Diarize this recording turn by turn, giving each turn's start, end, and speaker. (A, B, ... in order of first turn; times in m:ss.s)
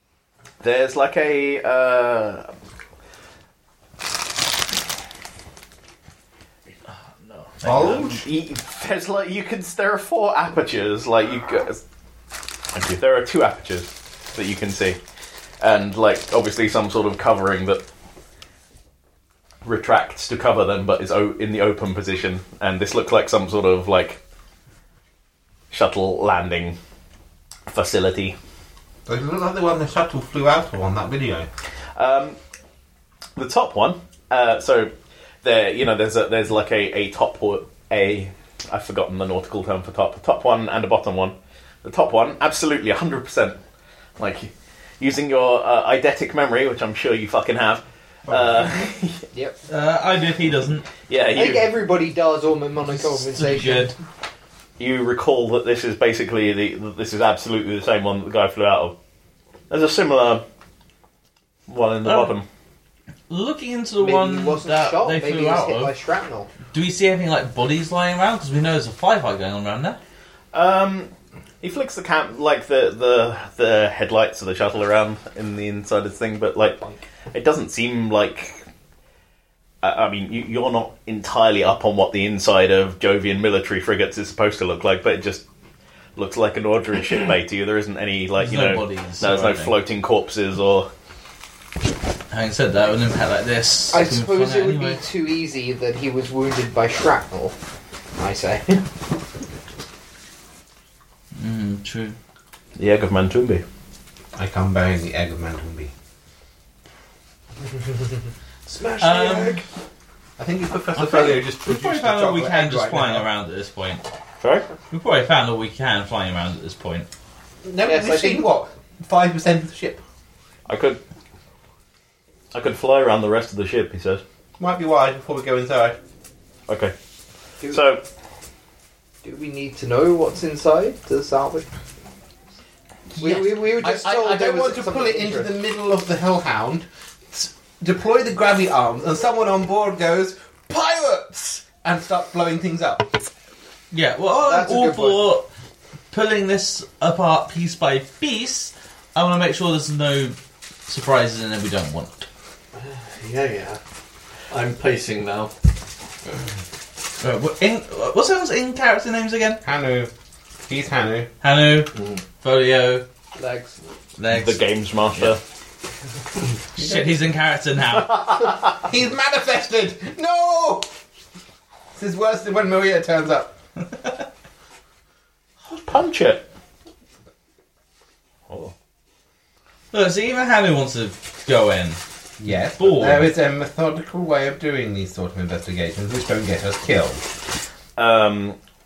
0:00.6-0:02.5 A
0:07.6-0:08.1 B
0:07.6-0:11.8 A
0:07.6-0:08.2 C
0:12.7-0:15.0 A
0:15.6-0:17.8 A
0:19.6-0:24.2 A
0:25.7-0:26.8 A
0:27.7-0:28.4 A
0:29.0-0:31.5 C
0:32.0-0:32.4 A
0:33.4-0:43.6 A
0:44.2-0:49.2 A
0:48.3-0:48.8 C
0:49.7-0:50.9 B
0:51.1-0:51.7 A
0:51.3-0:53.9 D
0:53.0-0:54.0 B
0:54.8-0:59.0 A
0:59.7-1:00.4 A
1:01.7-1:02.4 A
1:02.0-1:02.3 B
1:03.3-1:05.9 B
1:04.0-1:06.5 D
1:06.7-1:10.0 B
1:10.5-1:16.8 A
1:17.3-1:18.6 A
1:19.8-1:25.4 A
1:26.2-1:30.9 A
1:28.4-1:29.7 B
1:32.3-1:35.0 B
1:33.9-1:37.6 D
1:38.2-1:38.8 D
1:41.4-1:42.2 B
1:42.8-1:43.6 A
1:44.3-1:45.9 C
1:48.7-1:49.5 C
1:49.0-1:49.6 B
1:50.4-1:53.3 C
1:50.9-1:54.0 B
1:54.4-1:54.7 A
1:54.9-1:57.1 B
1:57.6-2:00.0 C
1:57.8-1:58.5 D
2:00.7-2:01.0 A
2:02.5-2:04.2 A
2:04.6-2:06.0 C
2:06.7-2:06.9 A
2:07.7-2:08.0 A
2:09.2-2:11.7 D
2:13.1-2:23.1 C
2:13.2-2:15.5 D
2:23.9-2:25.5 B
2:24.4-2:25.2 D
2:26.1-2:30.4 B
2:30.9-2:32.3 B
2:32.7-2:33.8 E
2:34.5-2:35.5 E
2:37.2-2:39.6 B
2:39.6-2:40.1 C
2:40.7-2:41.3 C
2:41.4-2:43.0 B
2:41.9-2:42.2 E
2:43.4-2:43.8 D
2:44.2-2:44.6 B
2:44.3-2:45.4 A
2:46.7-2:48.5 B
2:48.1-2:48.6 A
2:48.8-2:50.9 C
2:51.9-2:53.5 C
2:55.6-2:56.5 A
2:59.9-3:02.0 B
3:02.4-3:07.2 C
3:02.7-3:03.3 B
3:08.0-3:08.6 A